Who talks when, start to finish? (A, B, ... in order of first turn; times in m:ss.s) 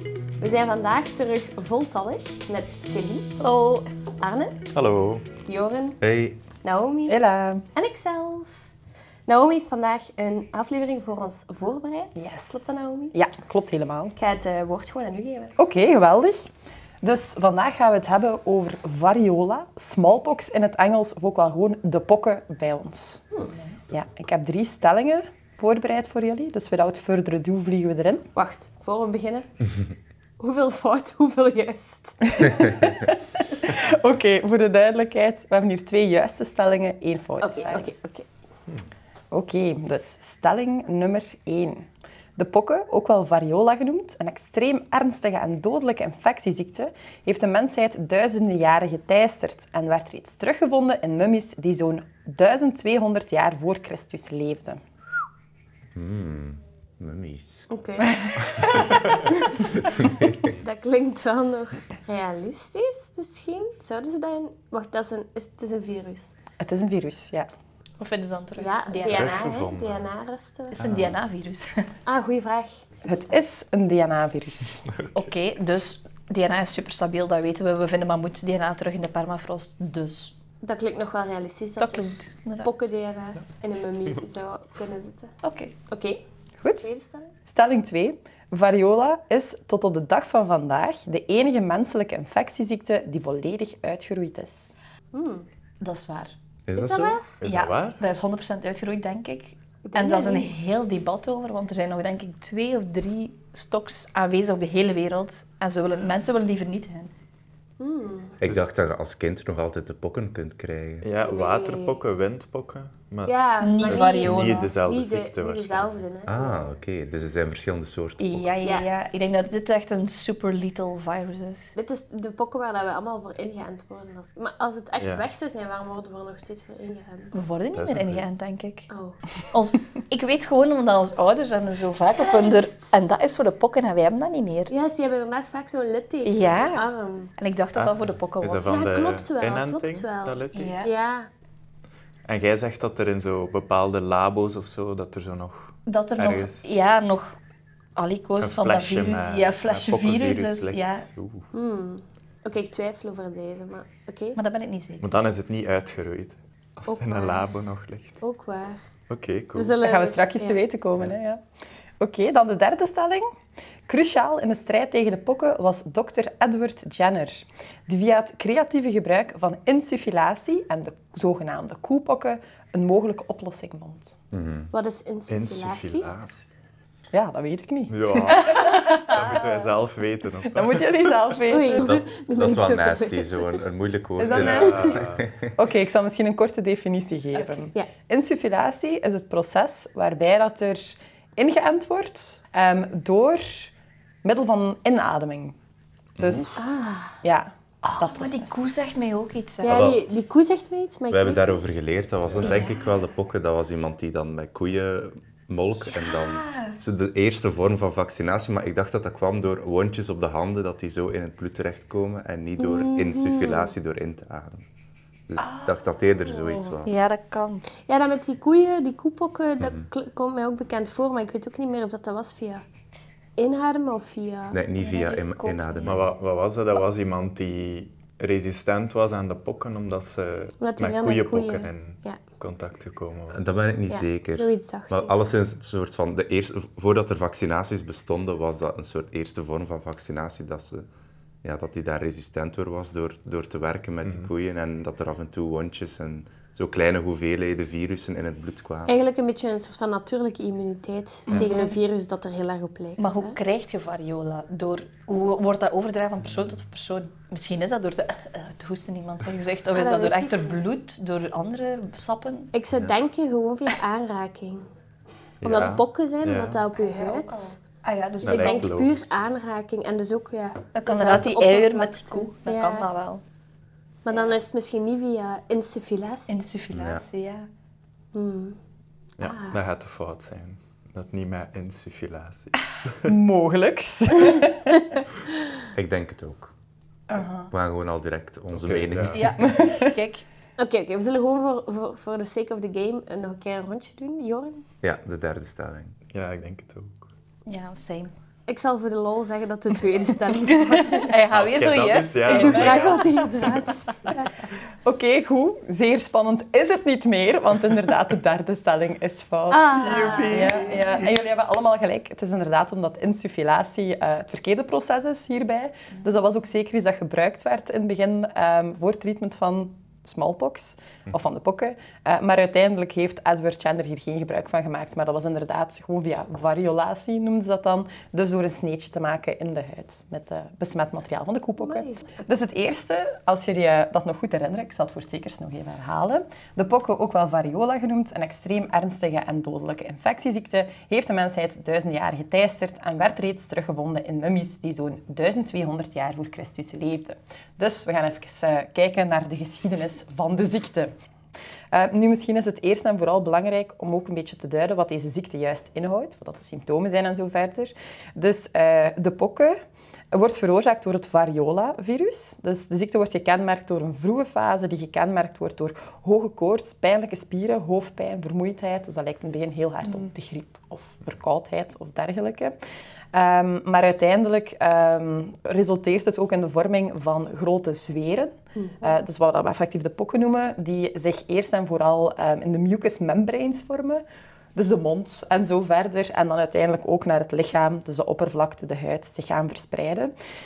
0:00.4-0:03.4 A
0:03.4-0:03.9 B
0:04.2-0:04.6 A
0:04.7-0:05.2 C
0:05.4-0:06.0 A
0:06.0-0:06.4 D
0:06.6-0:07.2 A
0:07.1-0:07.6 E
0:07.7-0:08.7 A
0:09.3-0:13.2 A
0:12.1-0:14.1 E
0:14.2-0:15.5 A
0:15.6-0:16.5 E
0:17.0-0:23.2 E
0:23.9-0:28.3 E
0:28.3-0:29.5 A
0:30.4-0:32.3 A
0:32.3-0:37.9 E
0:37.4-0:38.3 A
0:39.3-0:54.8 E
0:55.9-0:57.7 D
0:57.7-0:58.1 A
0:58.3-0:58.6 B
0:59.2-0:59.5 A
0:59.9-1:00.5 D
1:00.6-1:06.3 A
1:06.6-1:07.5 E
1:08.0-1:09.4 B
1:08.6-1:10.8 A
1:09.1-1:09.9 C
1:09.4-1:10.0 D
1:10.8-1:11.9 B
1:10.8-1:11.1 C
1:12.0-1:13.4 A
1:13.0-1:14.8 E
1:14.8-1:15.3 C
1:15.1-1:20.3 B
1:20.6-1:25.4 A
1:21.8-1:22.7 B
1:25.4-1:25.7 B
1:25.9-1:27.3 A
1:26.6-1:26.9 E
1:27.4-1:34.7 E
1:35.1-1:35.4 A
1:35.8-1:36.3 B
1:36.6-1:37.2 D
1:36.7-1:37.3 A
1:37.4-1:38.0 C
1:37.4-1:47.1 B
1:39.8-1:40.5 A
1:47.8-1:48.4 A
1:48.4-1:51.1 D
1:51.0-1:56.0 C
1:51.2-1:52.0 A
1:53.2-1:56.7 A
1:53.6-1:54.7 B
1:56.3-1:58.5 D
1:58.2-2:01.7 B
1:58.6-1:58.9 A
2:01.8-2:07.3 A
2:05.0-2:05.2 C
2:07.3-2:14.7 B
2:07.7-2:08.2 C
2:08.9-2:09.2 A
2:12.2-2:13.0 A
2:14.7-2:17.3 A
2:16.2-2:16.8 B
2:17.4-2:18.8 B
2:17.7-2:20.8 C
2:18.6-2:21.3 A
2:20.5-2:20.9 B
2:22.2-2:26.7 C
2:25.9-2:27.4 B
2:28.0-2:31.1 B
2:28.4-2:31.5 C
2:31.5-2:34.4 A
2:34.4-2:35.1 B
2:35.0-2:38.2 C
2:36.9-2:37.5 A
2:38.2-2:38.8 A
2:39.1-2:39.8 C
2:39.5-2:40.6 A
2:39.8-2:41.4 E
2:42.0-2:43.3 E
2:43.9-2:54.1 E
2:54.3-2:54.7 D
2:54.7-2:56.1 A
2:55.3-2:56.5 C
2:57.1-2:59.6 E
2:57.9-3:01.1 C
3:00.5-3:02.0 E
3:01.5-3:03.6 A
3:01.8-3:05.5 D
3:04.2-3:05.0 E
3:04.3-3:05.4 C
3:05.5-3:13.7 E
3:14.2-3:15.6 E
3:16.2-3:16.5 D
3:16.2-3:18.7 E
3:16.6-3:17.2 A
3:18.0-3:19.8 B
3:19.6-3:21.6 A
3:19.6-3:20.1 D
3:21.1-3:34.6 D
3:22.2-3:22.6 C
3:22.4-3:22.7 B
3:26.0-3:26.7 B
3:32.6-3:33.7 A
3:35.3-3:36.9 D
3:35.4-3:35.8 B
3:36.3-3:36.7 A
3:36.8-3:37.6 B
3:37.8-3:42.6 A
3:39.6-3:39.8 D
3:43.4-3:45.9 A
3:44.5-3:46.1 D
3:44.8-3:45.3 B
3:45.8-3:53.7 C
3:50.6-3:52.2 A
3:53.3-4:00.9 D
3:53.9-3:55.2 A
4:01.4-4:08.9 D
4:04.0-4:04.3 C
4:08.9-4:13.4 A
4:11.3-4:11.8 B
4:13.0-4:22.5 B
4:16.2-4:16.5 C
4:19.7-4:20.6 A
4:22.5-4:24.6 A
4:22.7-4:23.0 D
4:25.4-4:26.6 C
4:25.4-4:27.6 A
4:26.7-4:28.7 B
4:28.2-4:29.1 C
4:28.2-4:32.9 A
4:30.7-4:33.2 B
4:34.0-4:36.3 A
4:36.3-4:37.5 B
4:36.7-4:37.0 D
4:38.1-4:38.6 A
4:39.2-4:43.1 C
4:39.2-4:39.6 A
4:43.0-4:45.0 E
4:45.7-4:46.5 D
4:47.1-4:47.5 B
4:47.5-4:49.3 D
4:48.5-4:49.3 C
4:49.1-4:50.2 B
4:49.4-4:49.8 E
4:50.6-4:54.6 A
4:54.8-4:55.9 D
4:56.1-4:57.1 C
4:57.4-4:58.1 B
4:58.5-5:01.2 A
5:00.6-5:03.2 B
5:01.3-5:03.7 C
5:02.2-5:04.0 A
5:04.8-5:50.9 E
5:09.5-5:10.7 A
5:09.7-5:11.0 C
5:31.6-5:32.3 A
5:51.7-5:59.6 E
6:00.1-6:12.6 E
6:13.1-6:24.0 E
6:18.6-6:19.0 A
6:24.5-6:30.1 E